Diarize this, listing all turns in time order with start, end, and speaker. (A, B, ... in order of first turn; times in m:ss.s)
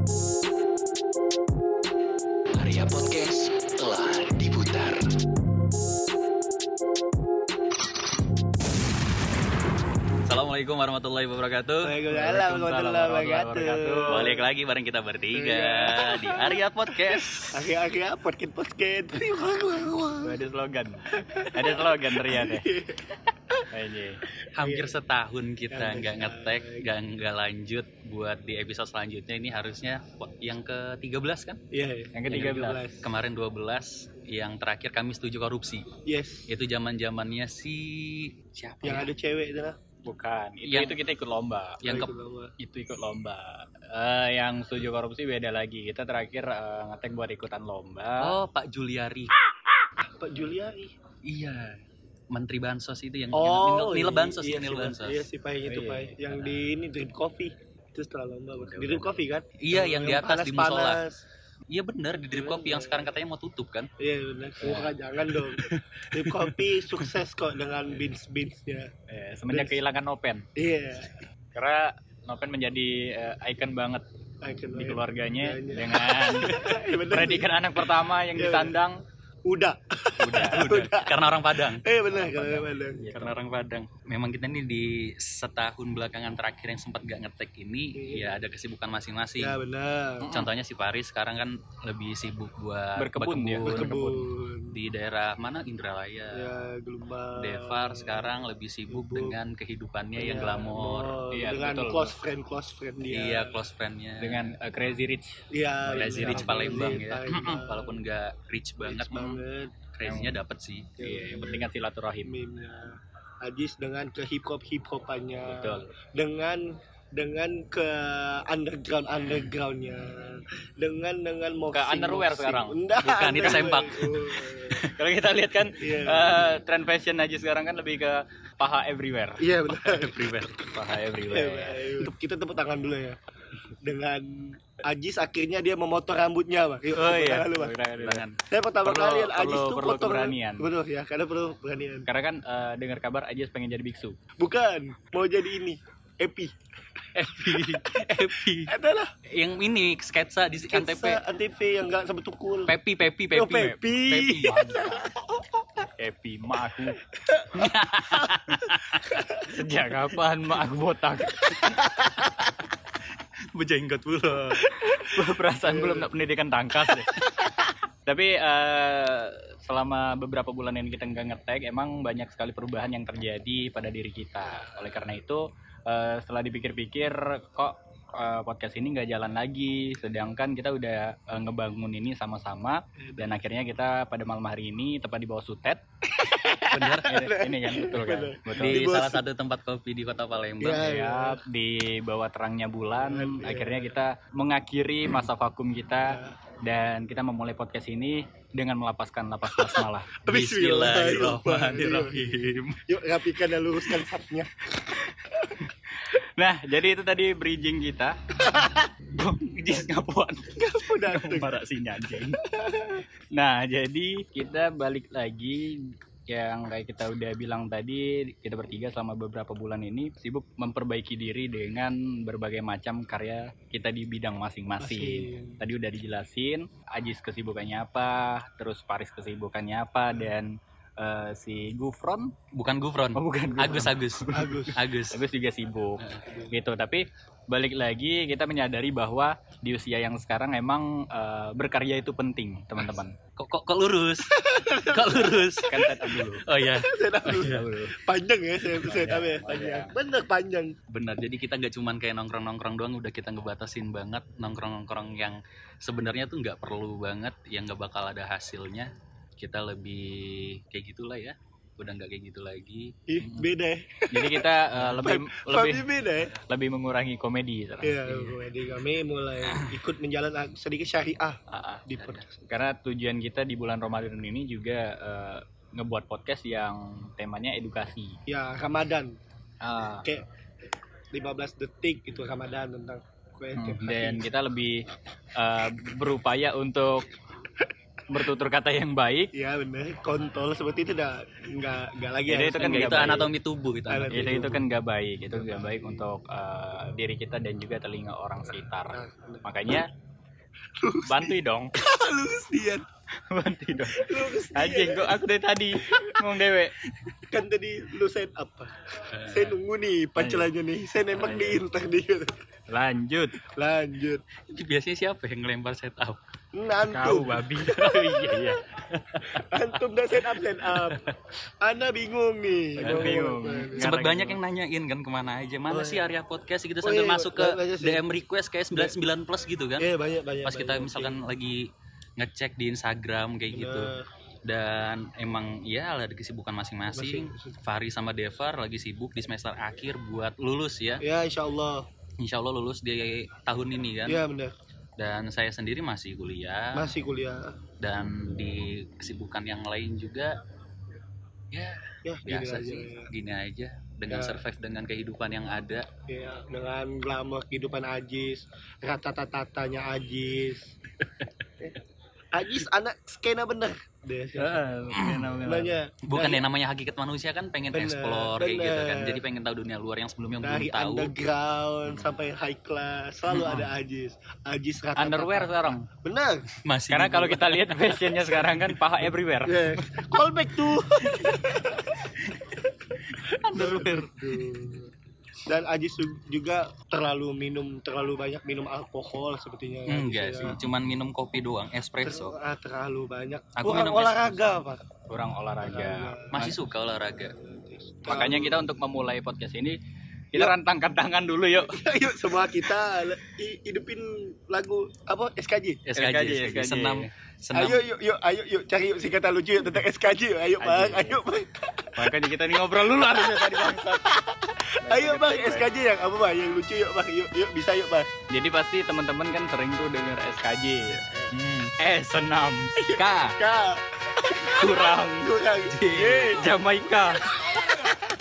0:02.5-0:05.0 A
0:10.2-0:11.9 A
0:11.8-0:14.5 B
0:12.1-0:14.3 C
0:14.1-0:17.7 A
0:15.3-0:20.4 B
0:20.2-0:22.7 C
0:21.1-0:23.6 B
0:23.7-0:24.2 C
0:24.5-0:31.6 A
0:24.6-0:25.0 B
0:25.7-0:26.9 B
0:31.7-0:33.1 B
0:32.1-0:32.8 C
0:33.0-0:35.9 A
0:36.0-0:36.5 B
0:36.5-0:39.1 A
0:38.8-0:39.8 B
0:40.0-0:41.9 C
0:40.6-0:41.0 A
0:41.8-0:42.1 A
0:41.8-0:42.5 B
0:42.6-0:48.4 C
0:48.2-0:49.4 A
0:50.0-0:50.9 B
0:51.2-0:51.8 A
0:52.3-0:55.3 A
0:53.3-1:01.2 B
0:55.6-0:56.2 C
0:58.6-1:01.0 A
1:01.7-1:03.9 A
1:02.3-1:03.2 B
1:04.0-1:08.9 B
1:04.6-1:04.9 C
1:05.4-1:07.0 A
1:09.1-1:10.4 C
1:09.5-1:09.8 B
1:10.6-1:11.2 B
1:11.5-1:14.0 C
1:14.4-1:17.6 B
1:14.7-1:19.0 C
1:18.3-1:18.8 B
1:19.4-1:23.2 B
1:20.2-1:20.7 C
1:20.4-1:21.9 A
1:22.1-1:23.4 C
1:23.1-1:29.6 A
1:27.9-1:28.4 B
1:29.4-1:30.3 B
1:30.2-1:30.5 C
1:30.3-1:36.7 A
1:33.0-1:34.0 C
1:33.6-1:34.8 B
1:36.3-1:38.3 B
1:37.3-1:41.1 A
1:38.9-1:39.4 B
1:40.2-1:43.6 B
1:41.3-1:42.2 C
1:43.1-1:44.5 A
1:44.2-1:47.5 C
1:45.5-1:48.0 B
1:45.9-1:50.9 A
1:48.8-1:49.9 B
1:50.0-1:50.4 C
1:51.0-1:51.7 B
1:51.0-1:52.3 C
1:52.2-2:04.8 B
1:55.4-1:55.9 C
2:01.7-2:02.8 C
2:03.0-2:04.4 A
2:04.7-2:09.5 C
2:05.8-2:06.5 B
2:09.4-2:10.2 B
2:09.7-2:10.6 A
2:10.7-2:12.1 C
2:11.3-2:13.2 B
2:13.8-2:17.8 B
2:16.9-2:18.2 C
2:17.9-2:18.4 A
2:18.5-2:22.1 B
2:18.8-2:20.7 C
2:22.0-2:24.2 C
2:24.4-2:26.5 B
2:27.1-2:28.7 A
2:27.4-2:27.8 B
2:28.6-2:29.1 B
2:29.3-2:31.2 A
2:30.7-2:32.7 B
2:32.7-2:34.6 A
2:33.3-2:35.1 B
2:34.1-2:35.1 C
2:36.0-2:37.0 C
2:37.2-2:38.6 B
2:37.6-2:39.0 A
2:39.4-2:41.8 C
2:43.5-2:44.6 A
2:44.7-2:46.1 B
2:44.8-2:47.2 C
2:47.2-2:47.4 B
2:48.0-3:05.8 C
2:54.4-2:55.2 B
3:06.1-3:09.2 B
3:06.7-3:07.1 A
3:07.0-3:08.8 C
3:08.6-3:10.9 A
3:10.6-3:11.4 B
3:10.8-3:20.2 C
3:13.0-3:14.0 B
3:16.0-3:16.3 B
3:19.6-3:24.5 B
3:20.2-3:22.8 A
3:26.4-3:28.2 C
3:29.2-3:29.8 C
3:29.3-3:32.3 A
3:30.5-3:31.5 B
3:31.9-3:32.3 C
3:32.5-3:33.0 B
3:33.3-3:52.3 C
3:44.8-3:45.6 B
3:52.5-3:55.2 A
3:53.1-4:03.2 C
3:54.3-3:54.8 B
3:56.0-3:56.2 A
3:56.2-3:56.6 B
4:03.4-4:04.3 A
4:04.2-4:06.1 B
4:04.9-4:05.7 A
4:05.7-4:06.4 C
4:06.4-4:07.6 A
4:06.8-4:10.7 B
4:07.5-4:07.9 C
4:08.8-4:09.9 C
4:10.9-4:23.0 A
4:23.1-4:26.4 B
4:24.1-4:25.9 C
4:26.5-4:28.4 C
4:27.8-4:32.5 B
4:31.5-4:31.8 C
4:31.9-4:32.3 A
4:32.5-4:38.2 C
4:38.3-4:39.1 B
4:39.6-4:40.1 C
4:41.1-4:44.3 B
4:43.5-4:47.1 C
4:48.1-4:49.3 C
4:49.3-4:53.3 B
4:52.3-4:53.3 C
4:52.6-4:54.4 A
4:53.9-4:54.7 B
4:54.1-4:59.9 C
4:55.3-4:56.1 B
4:58.9-4:59.4 B
5:00.8-5:02.8 B
5:01.0-5:01.7 C
5:03.3-5:06.7 C
5:03.8-5:05.3 B
5:05.8-5:06.2 B
5:07.3-5:12.3 B
5:09.1-5:09.6 A
5:10.2-5:10.5 C
5:11.2-5:11.6 C
5:12.7-5:13.4 C
5:13.4-5:14.2 B
5:14.5-5:16.2 A
5:16.5-5:18.3 B
5:16.9-5:18.6 C
5:17.8-5:19.4 A
5:19.3-5:21.0 B
5:20.7-5:21.1 A
5:21.6-5:23.9 B
5:22.8-5:24.4 C
5:22.8-5:23.2 A
5:23.8-5:29.9 A
5:25.7-5:26.1 B
5:26.8-5:28.0 B
5:29.8-5:31.2 B
5:30.4-5:31.6 A
5:32.2-5:33.9 A
5:33.5-5:34.0 B
5:34.4-5:41.0 A
5:36.9-5:37.6 B
5:41.0-5:41.8 B
5:42.2-5:44.2 A
5:44.0-5:44.5 B
5:45.0-5:46.9 A
5:46.7-5:47.6 B
5:47.8-5:50.4 A
5:51.5-5:55.9 A
5:52.0-5:53.1 B
5:54.1-5:54.4 B
5:56.1-6:00.7 B
6:02.3-6:04.6 B
6:04.3-6:05.8 C
6:04.9-6:05.3 A
6:05.4-6:06.4 B
6:06.0-6:11.1 A
6:07.7-6:09.2 B
6:10.4-6:16.5 B
6:11.9-6:12.2 A
6:13.3-6:13.7 A
6:15.0-6:15.9 C
6:16.6-6:17.6 A
6:16.9-6:19.7 C
6:18.2-6:18.8 A
6:19.4-6:22.0 B
6:23.2-6:24.4 A
6:23.5-6:24.9 B
6:25.4-6:30.6 B
6:29.9-6:32.4 A
6:32.0-6:34.8 B
6:33.6-6:34.6 A
6:35.1-6:36.6 C
6:35.6-6:36.6 B
6:36.3-6:37.4 A
6:37.1-6:38.7 B
6:38.0-6:39.8 C
6:40.3-6:41.8 C
6:41.6-6:45.8 B
6:45.8-6:47.8 A
6:45.9-6:47.1 C
6:47.5-6:52.1 B
6:50.6-6:51.2 C
6:52.0-6:54.1 C
6:53.0-6:58.1 B
6:54.8-6:55.7 C
6:58.3-7:03.4 C
7:01.0-7:01.3 B
7:02.8-7:06.5 B
7:04.3-7:05.3 C
7:05.6-7:06.4 A
7:06.4-7:07.3 C
7:07.4-7:08.0 B